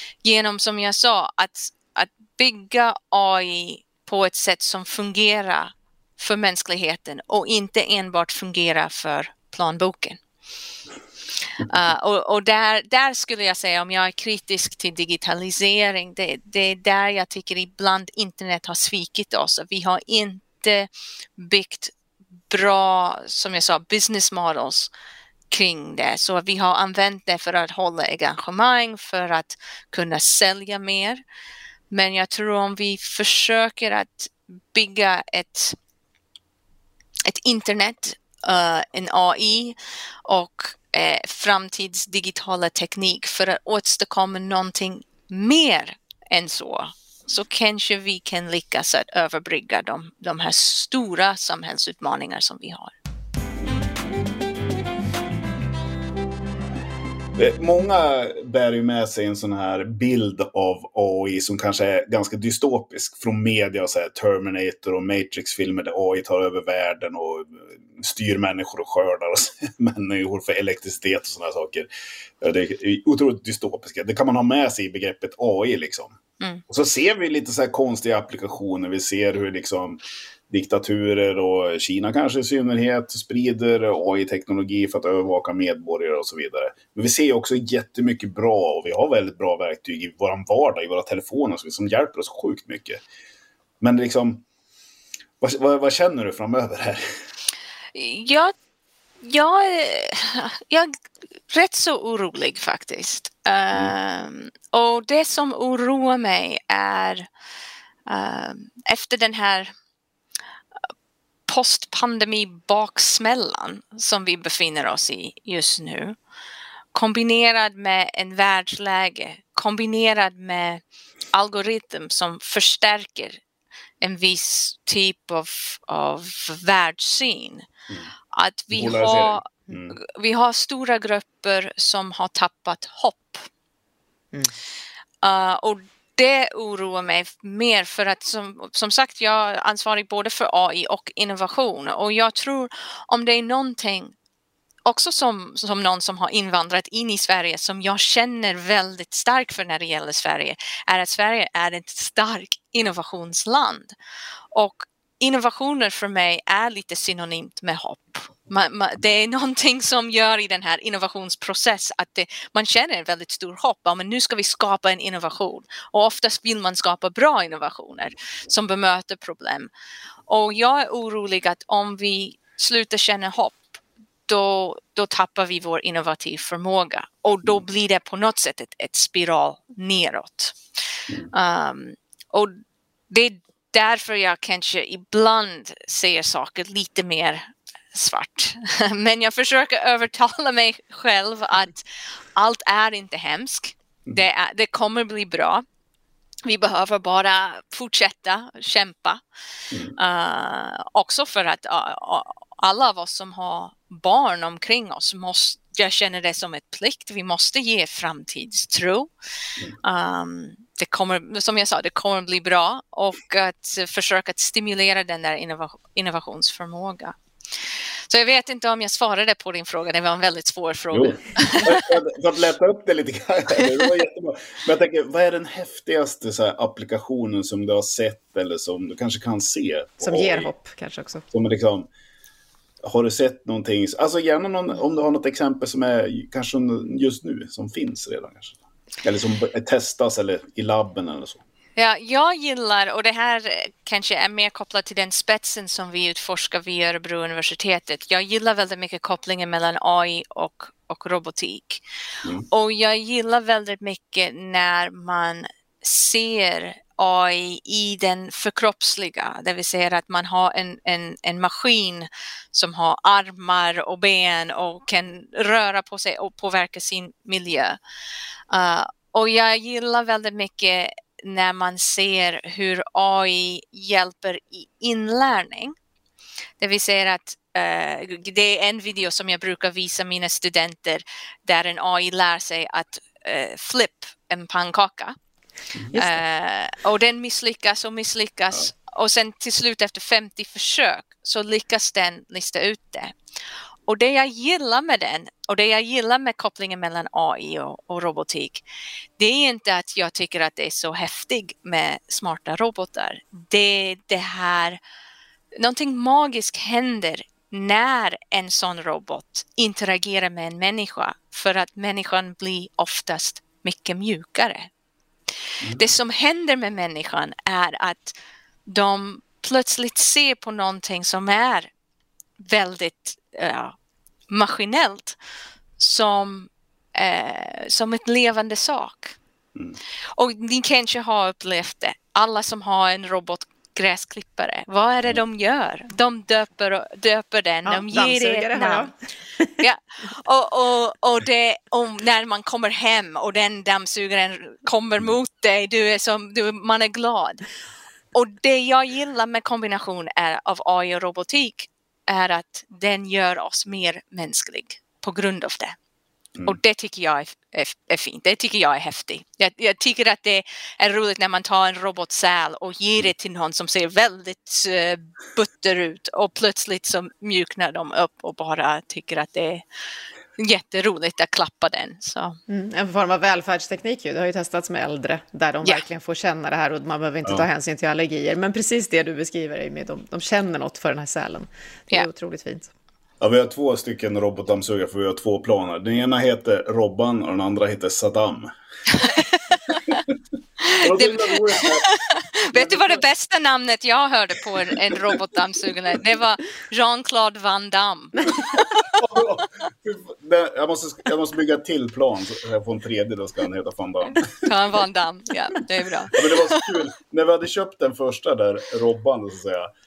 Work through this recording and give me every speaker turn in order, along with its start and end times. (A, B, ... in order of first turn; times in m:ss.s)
0:00.2-0:10.2 A
0:11.6-0:21.9 A
0:22.5-0:24.9 A
0:25.5-0:31.2 A
0:31.9-0:35.8 A
0:37.2-0:52.9 A
0:57.4-1:11.9 B
1:12.4-1:16.1 B
1:16.7-1:33.0 B
1:33.8-1:34.4 B
1:35.4-1:37.0 B
1:37.9-1:38.5 A
1:39.2-1:41.0 A
1:41.5-1:47.3 A
1:48.1-1:49.7 A
1:51.5-1:56.2 A
1:56.9-2:00.8 A
2:01.3-2:03.4 A
2:04.0-2:07.7 A
2:08.3-2:13.5 A
2:08.7-2:10.0 B
2:15.2-2:24.1 A
2:24.8-2:33.9 A
2:34.5-2:49.7 A
2:50.3-3:00.6 A
3:01.3-3:02.6 A
3:03.1-3:15.6 A
3:16.4-3:19.2 A
3:19.9-3:29.1 A
3:29.8-3:37.2 A
3:38.1-3:41.8 A
3:40.9-3:50.5 B
3:50.0-3:51.2 C
3:51.3-3:51.9 B
3:52.8-4:01.4 B
4:01.8-4:11.8 A
4:12.5-4:27.8 A
4:28.5-4:35.7 A
4:36.6-4:45.2 A
4:45.9-4:53.1 A
4:53.8-4:58.6 A
4:59.2-5:04.8 A
5:05.6-5:14.7 A
5:15.8-5:21.7 A
5:22.4-5:23.7 A
5:24.3-5:25.2 A
5:25.8-5:29.2 A
5:30.1-5:38.9 A
5:37.6-5:38.9 C
5:39.6-5:47.4 A
5:48.1-5:55.8 A
5:56.4-6:09.6 A
6:10.4-6:12.4 A
6:12.5-6:22.7 C
6:23.2-6:28.5 B
6:28.9-6:29.2 A
6:29.0-6:30.0 B
6:30.6-6:38.8 A
6:30.8-6:31.9 B
6:32.5-6:33.0 B
6:38.2-6:38.4 C
6:38.9-6:44.5 B
6:44.4-6:46.6 A
6:46.1-6:49.7 B